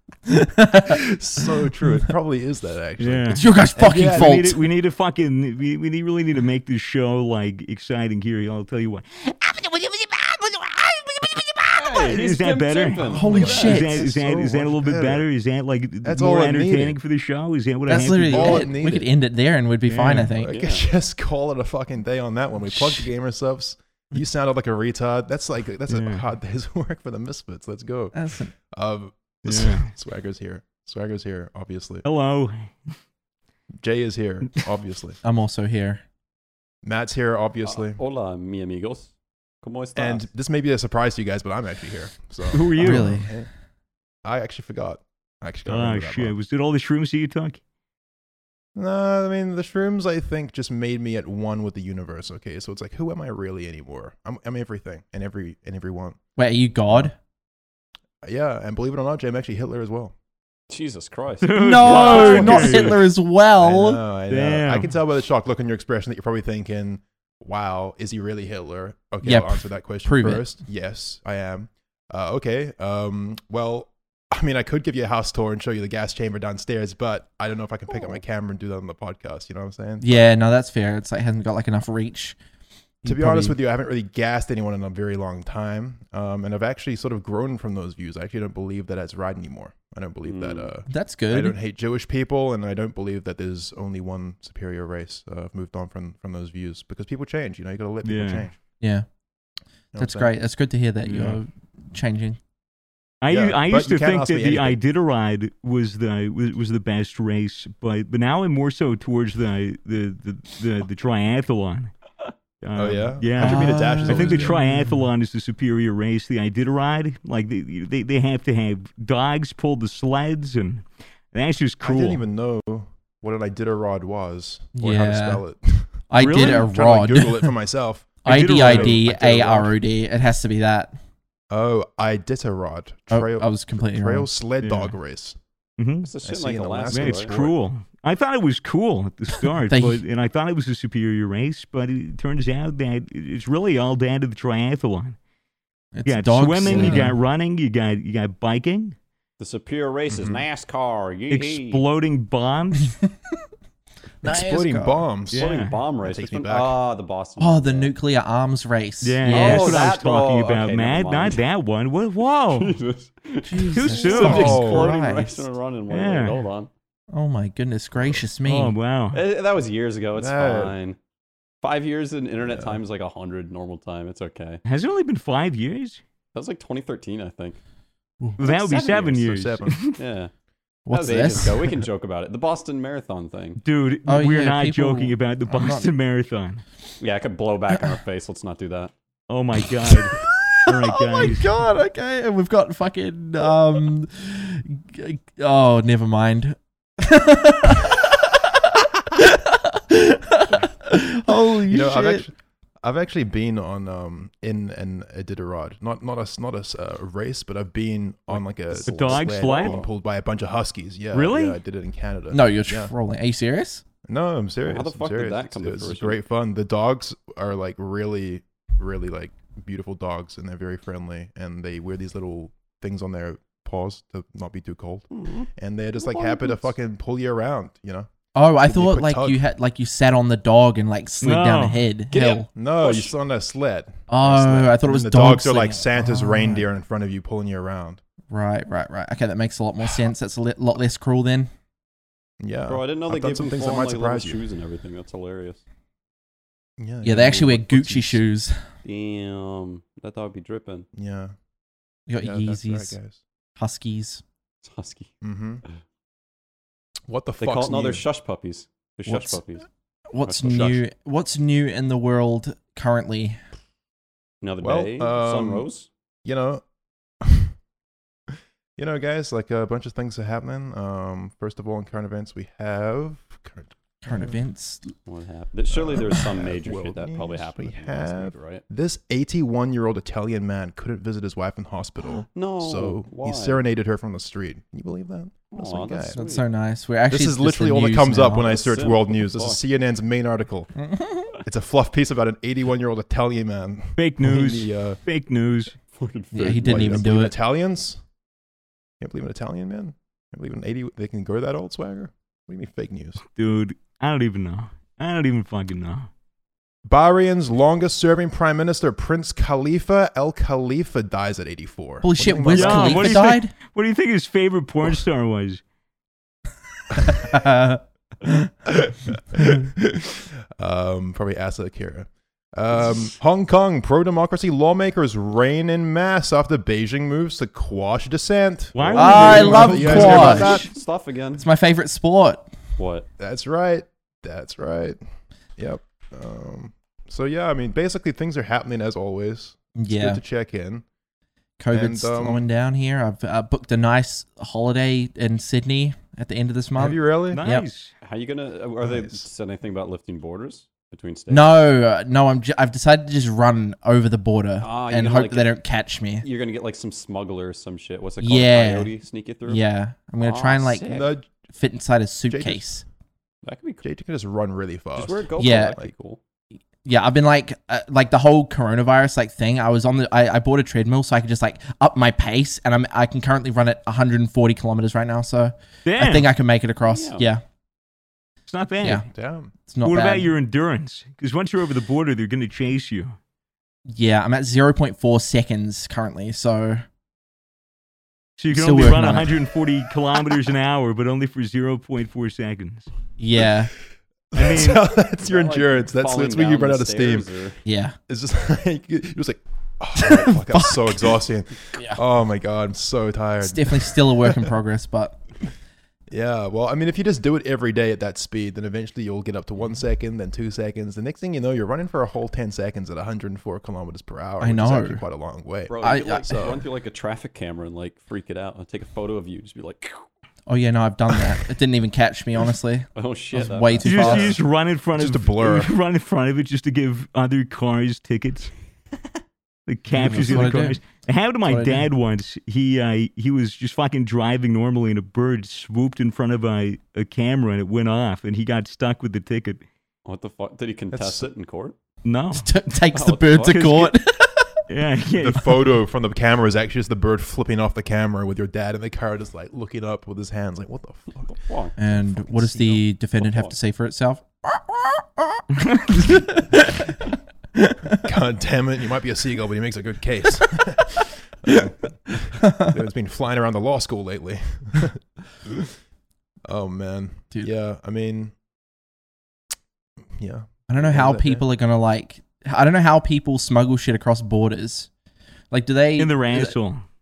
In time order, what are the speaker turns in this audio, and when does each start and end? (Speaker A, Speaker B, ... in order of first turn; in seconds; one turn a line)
Speaker A: 0.3-1.1
Speaker B: 0.9-4.4
Speaker C: 3.0-18.7
Speaker A: 3.3-4.7
Speaker D: 11.8-13.8
Speaker B: 13.1-15.2
Speaker A: 13.1-14.0
Speaker B: 16.0-17.0
Speaker A: 17.9-20.5
Speaker B: 17.9-19.1
Speaker C: 19.9-20.3
Speaker B: 20.1-32.0
Speaker D: 20.5-20.9
Speaker A: 22.7-23.1
Speaker C: 25.9-26.2
Speaker A: 28.1-28.5
Speaker C: 29.5-29.9
Speaker C: 32.0-33.0
Speaker B: 33.8-35.2
Speaker A: 35.2-36.0
Speaker B: 36.8-38.0
Speaker D: 37.6-40.2
Speaker B: 40.0-43.5
Speaker C: 42.5-43.1
Speaker A: 42.8-43.4
Speaker B: 44.2-46.3
Speaker C: 45.7-47.6
Speaker B: 48.8-56.2
Speaker A: 56.4-57.1
Speaker B: 58.2-60.1
Speaker D: 60.7-62.9
Speaker C: 61.4-63.0
Speaker A: 61.6-64.0
Speaker B: 62.0-62.9
Speaker B: 63.6-80.2
Speaker C: 64.3-64.9
Speaker A: 69.2-70.4
Speaker A: 80.0-82.4
Speaker A: 83.0-83.6
Speaker B: 83.1-98.5
Speaker D: 90.2-90.7
Speaker A: 90.9-91.6
Speaker C: 98.0-98.5
Speaker A: 98.8-99.1
Speaker B: 99.9-100.3
Speaker A: 100.0-102.4
Speaker C: 101.0-101.4
Speaker C: 103.2-111.9
Speaker B: 103.3-104.8
Speaker C: 112.6-122.2
Speaker B: 112.8-114.6
Speaker A: 113.4-115.0
Speaker B: 121.8-129.7
Speaker A: 124.8-125.4
Speaker A: 126.1-127.5
Speaker C: 126.2-126.7
Speaker A: 128.2-131.0
Speaker C: 128.3-129.0
Speaker B: 131.5-135.4
Speaker A: 133.1-134.3
Speaker C: 134.6-134.9
Speaker C: 135.8-136.1
Speaker D: 136.0-137.3
Speaker B: 136.2-137.5
Speaker C: 136.9-145.2
Speaker A: 139.7-140.0
Speaker A: 145.9-147.2
Speaker C: 146.1-149.0
Speaker B: 146.7-147.1
Speaker D: 149.4-151.8
Speaker B: 150.1-150.4
Speaker C: 151.3-153.0
Speaker A: 154.2-155.0
Speaker B: 154.2-155.5
Speaker C: 155.3-155.8
Speaker D: 155.3-157.9
Speaker B: 156.0-156.8
Speaker A: 157.4-159.9
Speaker C: 159.0-162.8
Speaker D: 159.3-161.4
Speaker D: 162.5-166.7
Speaker A: 163.5-165.5
Speaker C: 163.7-164.7
Speaker B: 164.1-164.9
Speaker C: 165.9-166.5
Speaker A: 167.1-168.8
Speaker C: 168.5-169.2
Speaker D: 169.1-171.0
Speaker B: 170.2-170.8
Speaker D: 171.6-174.6
Speaker B: 172.5-172.8
Speaker C: 174.7-176.0
Speaker D: 176.3-177.6
Speaker D: 178.4-179.2
Speaker C: 178.4-180.0
Speaker B: 179.2-179.8
Speaker D: 179.9-180.3
Speaker A: 180.8-181.7
Speaker D: 180.9-183.6
Speaker C: 183.6-186.6
Speaker A: 184.1-185.9
Speaker D: 187.0-188.9
Speaker A: 187.7-188.0
Speaker C: 189.3-191.5
Speaker A: 190.1-202.3
Speaker B: 201.7-212.9
Speaker C: 208.3-209.8
Speaker D: 208.8-209.9
Speaker C: 211.1-211.6
Speaker A: 212.3-213.8
Speaker B: 214.0-228.1
Speaker D: 214.6-216.2
Speaker D: 225.1-226.8
Speaker A: 228.3-232.5
Speaker B: 228.6-229.4
Speaker C: 231.2-231.9
Speaker D: 232.1-233.2
Speaker B: 232.5-238.0
Speaker A: 234.1-236.7
Speaker A: 238.3-241.5
Speaker B: 242.4-244.4
Speaker D: 242.7-245.6
Speaker B: 246.8-248.2
Speaker A: 247.0-248.6
Speaker D: 248.8-250.9
Speaker B: 250.9-251.3
Speaker A: 252.1-252.9
Speaker B: 252.2-253.2
Speaker A: 253.6-254.2
Speaker D: 254.6-255.1
Speaker B: 255.2-255.6
Speaker B: 257.1-258.0
Speaker D: 257.4-259.7
Speaker A: 259.1-259.4
Speaker A: 260.1-263.4
Speaker B: 260.2-260.8
Speaker D: 264.4-265.9
Speaker B: 264.6-265.6
Speaker B: 266.2-266.6
Speaker B: 267.2-267.5
Speaker B: 268.8-274.4
Speaker A: 274.0-274.9
Speaker D: 275.1-278.6
Speaker B: 275.7-286.2
Speaker D: 282.3-283.6
Speaker D: 285.5-286.4
Speaker A: 286.1-288.6
Speaker B: 287.1-290.8
Speaker D: 288.4-289.6
Speaker A: 290.8-291.3
Speaker B: 291.4-295.0
Speaker C: 294.0-295.8
Speaker D: 295.9-297.1
Speaker A: 296.3-297.3
Speaker B: 296.6-298.0
Speaker B: 299.0-303.2
Speaker C: 303.4-306.1
Speaker B: 306.9-313.2
Speaker A: 312.0-313.5
Speaker C: 312.5-315.6
Speaker A: 316.9-318.5
Speaker B: 316.9-317.2
Speaker B: 318.6-330.7
Speaker C: 328.8-330.4
Speaker A: 329.0-330.7
Speaker D: 329.0-331.4
Speaker A: 331.4-332.5
Speaker D: 332.8-333.1
Speaker B: 333.2-335.0
Speaker B: 335.6-340.9
Speaker A: 339.8-340.2
Speaker A: 341.6-347.7
Speaker B: 341.7-342.4
Speaker B: 346.8-347.4
Speaker C: 347.3-347.9
Speaker D: 348.0-351.7
Speaker B: 348.8-349.2
Speaker A: 351.3-356.2
Speaker D: 354.6-355.5
Speaker D: 356.2-359.6
Speaker A: 358.2-358.9
Speaker A: 359.5-360.9
Speaker D: 360.2-361.1
Speaker B: 360.9-361.3
Speaker A: 361.5-362.8
Speaker B: 362.3-362.6
Speaker D: 363.4-363.9
Speaker B: 363.8-365.9
Speaker D: 365.0-366.2
Speaker A: 365.4-365.8
Speaker A: 366.8-377.4
Speaker C: 375.9-376.3
Speaker D: 376.8-377.3
Speaker C: 378.5-379.1
Speaker A: 378.8-379.1
Speaker B: 379.1-379.5
Speaker A: 379.6-380.3
Speaker C: 379.8-383.1
Speaker A: 383.9-386.9
Speaker C: 388.4-392.9
Speaker A: 388.5-389.4
Speaker A: 393.2-393.7
Speaker B: 394.3-397.3
Speaker C: 394.4-394.8
Speaker D: 395.2-397.6
Speaker A: 397.6-398.0
Speaker B: 398.1-404.5
Speaker A: 399.9-401.2
Speaker A: 403.4-405.2
Speaker B: 406.1-416.6
Speaker A: 414.4-415.0
Speaker D: 415.7-420.0
Speaker A: 415.8-416.6
Speaker A: 420.5-424.4
Speaker D: 422.9-424.4
Speaker C: 423.8-428.5
Speaker B: 424.0-424.4
Speaker B: 424.9-425.7
Speaker C: 429.7-439.6
Speaker A: 430.0-430.8
Speaker A: 431.4-431.9
Speaker D: 440.1-441.8
Speaker B: 440.9-441.3
Speaker C: 442.0-442.5
Speaker A: 442.3-444.6
Speaker D: 442.9-443.6
Speaker C: 443.4-443.9
Speaker C: 444.7-445.6
Speaker B: 445.1-452.8
Speaker D: 451.2-451.8
Speaker A: 451.8-458.0
Speaker D: 453.2-453.5
Speaker C: 455.6-456.0
Speaker B: 458.0-465.7
Speaker A: 462.4-462.8
Speaker B: 466.4-468.3
Speaker B: 470.2-471.4
Speaker A: 470.7-474.9
Speaker A: 475.5-476.6
Speaker C: 476.0-476.8